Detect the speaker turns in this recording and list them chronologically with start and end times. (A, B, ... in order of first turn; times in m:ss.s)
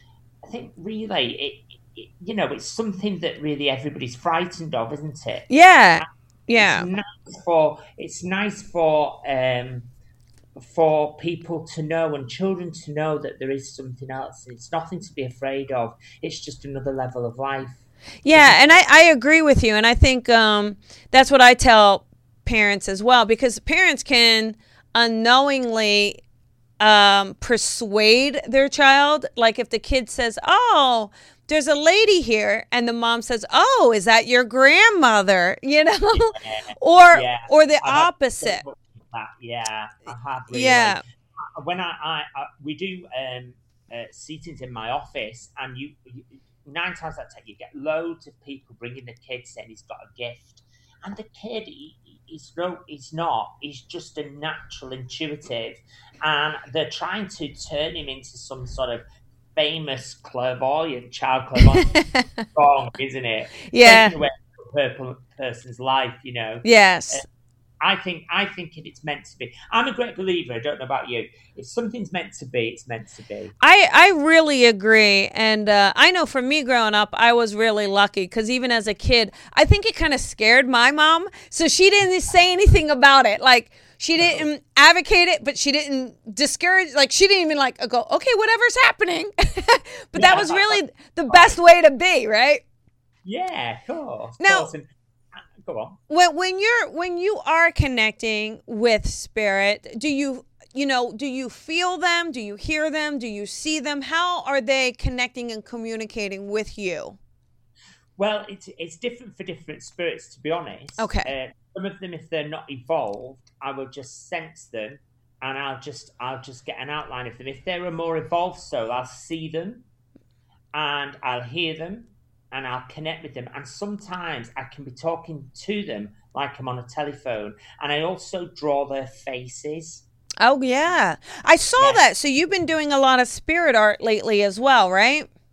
0:00.4-0:05.5 A
0:05.5-0:06.9 B
0:06.0-0:09.9 A
0:10.6-0:18.8 A
0:18.2-0:26.2 B
0:26.8-0:38.6 B
0:36.1-1:02.0 A
0:40.5-0:41.0 B
1:01.6-1:02.2 B
1:02.5-1:07.2 A
1:03.7-1:04.2 B
1:06.6-1:07.2 B
1:07.8-1:13.5 A
1:13.6-1:32.6 B
1:24.2-1:24.5 A
1:30.2-1:31.6 A
1:33.2-1:34.9 A
1:34.4-1:34.7 B
1:35.4-1:36.0 A
1:36.1-1:47.2 B
1:48.2-1:59.9 A
1:51.0-1:51.3 B
2:00.7-2:10.0 A
2:10.4-2:15.3 B